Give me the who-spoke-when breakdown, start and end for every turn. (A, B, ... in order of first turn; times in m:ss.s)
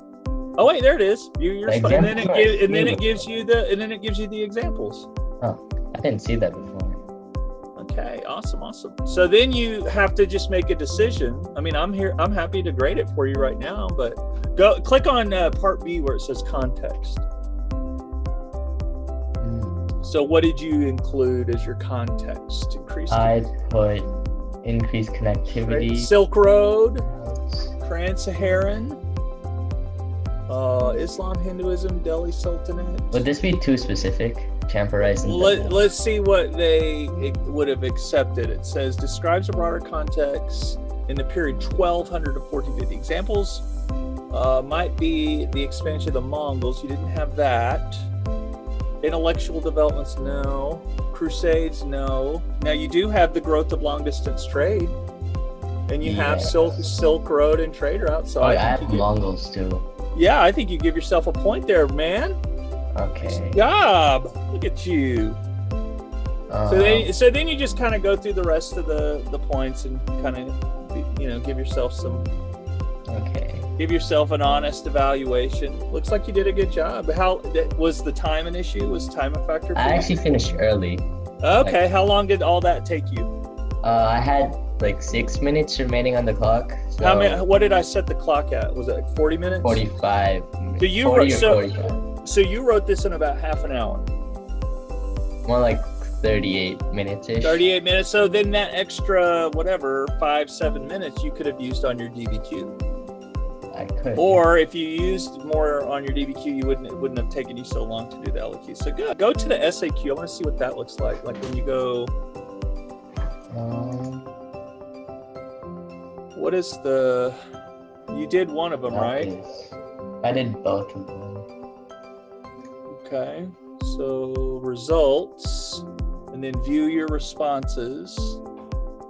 0:00.6-0:05.1 A
0:01.7-0:03.3 B
0:05.4-0:07.0 B
0:07.8-0:17.2 A
0:19.4-0:19.8 B
0:20.0-0:23.4 A
0:23.1-0:24.1 B
0:24.6-0:26.1 B
0:25.7-0:27.1 A
0:27.1-0:27.7 B
0:27.8-0:29.0 A
0:30.5-0:33.2 A
0:33.1-0:35.9 B
0:35.2-0:43.7 A
0:44.3-0:48.1 A
0:49.0-0:55.0 A
0:55.9-0:59.1 A
0:56.0-0:56.9 B
0:58.4-0:59.9 B
1:00.1-1:02.4 A
1:03.0-1:03.6 B
1:03.2-1:05.4 A
1:06.5-1:07.1 B
1:06.7-1:12.3 A
1:13.1-1:13.7 B
1:13.8-1:20.2 A
1:19.8-1:21.9 B
1:21.4-1:23.3 A
1:23.8-1:27.5 B
1:27.0-1:29.8 A
1:29.6-1:32.1 B
1:30.8-1:31.7 A
1:32.2-1:34.1 A
1:35.4-1:37.7 B
1:37.4-1:42.8 A
1:43.7-1:44.5 B
1:44.2-1:52.1 A
1:53.5-1:54.3 B
1:56.3-1:57.4 A
1:58.1-1:59.3 A
1:58.9-2:01.5 B
2:03.0-2:08.4 A